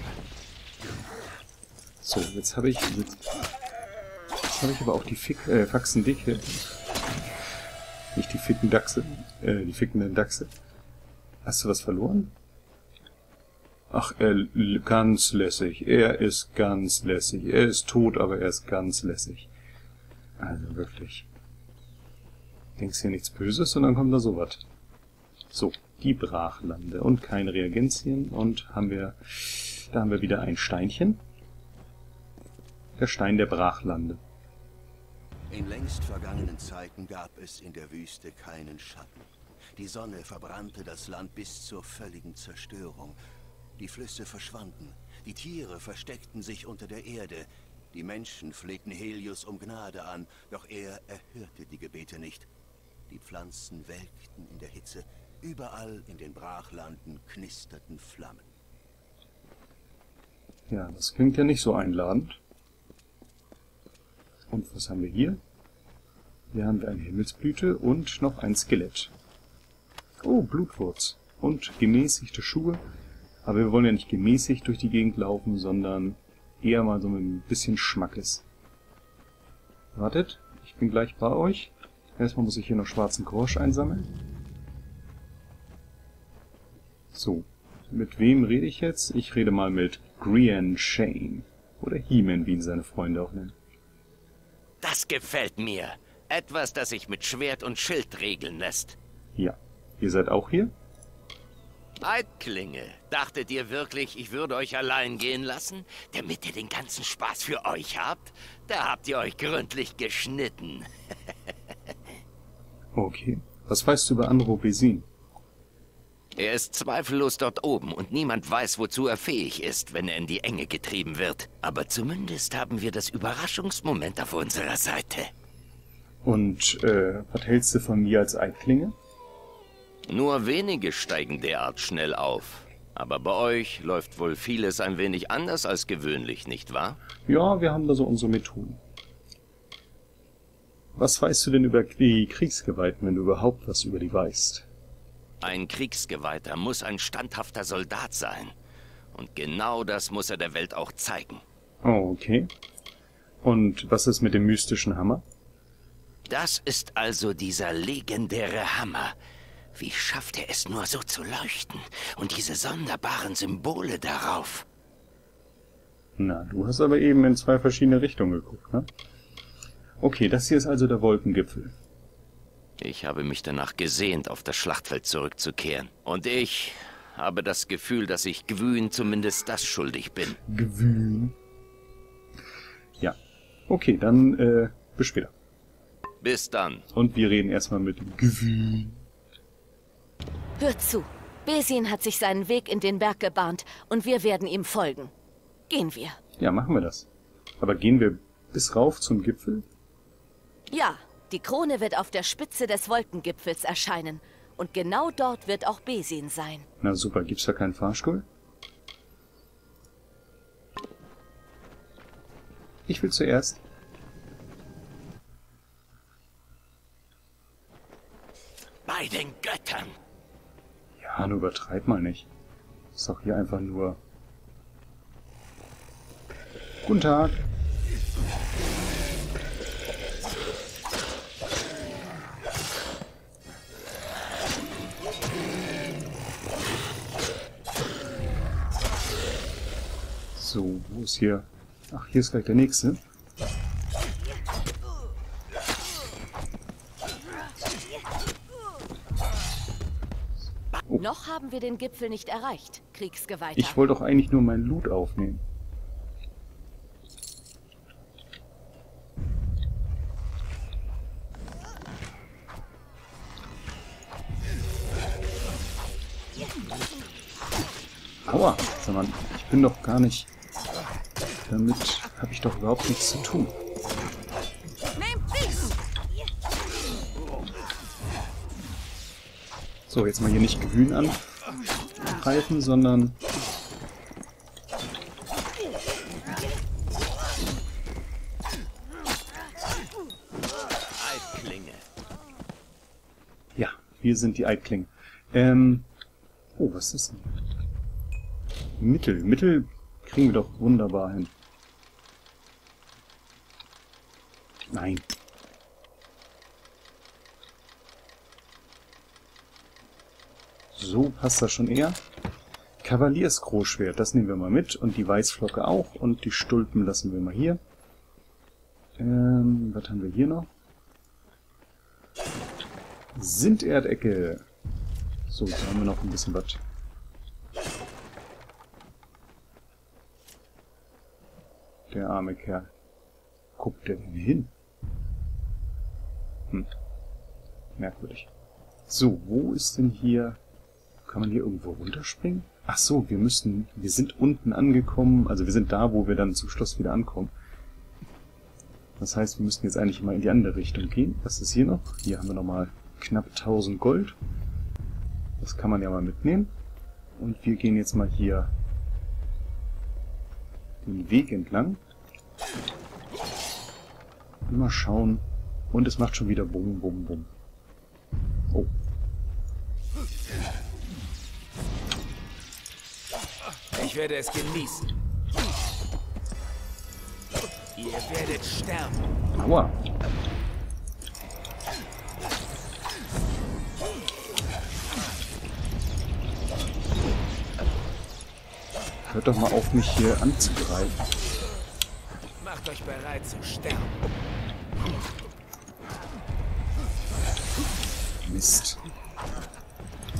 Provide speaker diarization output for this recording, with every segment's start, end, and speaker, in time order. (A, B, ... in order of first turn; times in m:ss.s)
0:02.0-0:03.2 A
0:04.4-0:06.6 A
0:08.1-0:10.5 A
0:11.4-0:12.3 A
0:13.9-0:19.5 A
0:20.4-0:21.3 A
0:22.8-0:24.6 A
0:25.5-0:31.2 A
0:33.0-0:34.2 A
0:35.5-0:43.2 B
0:43.8-0:52.5 B
0:53.1-0:58.5 B
1:00.7-1:02.4 A
1:04.5-1:05.4 A
1:06.5-1:09.1 A
1:10.2-1:12.8 A
1:13.4-1:18.4 A
1:19.9-1:24.1 A
1:27.1-1:33.5 A
1:34.8-1:39.0 C
1:39.3-1:40.7 A
1:42.0-1:50.9 C
1:52.9-1:55.0 A
1:56.4-2:05.3 C
2:06.2-2:08.9 A
2:10.1-2:17.0 C
2:17.2-2:18.8 A
2:20.9-2:24.7 A
2:25.4-2:28.5 C
2:29.1-2:31.4 C
2:31.8-2:32.5 A
2:33.4-2:35.2 A
2:36.3-2:39.2 C
2:39.7-2:44.6 C
2:46.2-2:48.9 A
2:50.0-2:51.7 A
2:52.8-3:00.4 C
3:00.4-3:01.3 A
3:03.7-3:05.3 A
3:06.2-3:06.8 C
3:06.9-3:09.0 A
3:10.6-3:15.1 D
3:15.7-3:16.2 D
3:16.4-3:17.1 A
3:17.6-3:19.6 A
3:20.7-3:26.6 D
3:26.8-3:28.2 A
3:32.9-3:33.6 A
3:38.8-3:39.9 C
3:41.0-3:42.3 A
3:42.9-3:44.0 A
3:46.8-3:47.4 A
4:00.4-4:03.0 A
4:11.0-4:13.8 D
4:13.6-4:15.4 A
4:28.2-4:30.3 A
4:31.5-4:33.6 A
4:39.9-4:41.2 A
4:42.0-4:43.1 A
4:50.9-4:51.8 C
4:53.6-4:55.8 A
4:56.6-4:57.4 A
4:58.8-5:01.3 A
5:04.7-5:05.1 A
5:10.7-5:12.0 A
5:12.8-5:17.6 A
5:19.0-5:20.5 A
5:23.1-5:24.4 A
5:25.3-5:26.6 A
5:31.9-5:32.7 A
5:33.6-5:34.5 A
5:37.8-5:38.3 A
5:38.9-5:40.4 A
5:41.1-5:47.3 A
5:49.0-5:54.2 A
5:55.4-5:56.5 A
5:57.2-5:58.5 A
6:00.8-6:01.8 A
6:04.5-6:07.3 A
6:13.7-6:14.9 E
6:17.8-6:19.1 E
6:19.4-6:19.8 A
6:29.0-6:31.0 A
6:32.4-6:34.0 E
6:38.2-6:38.8 A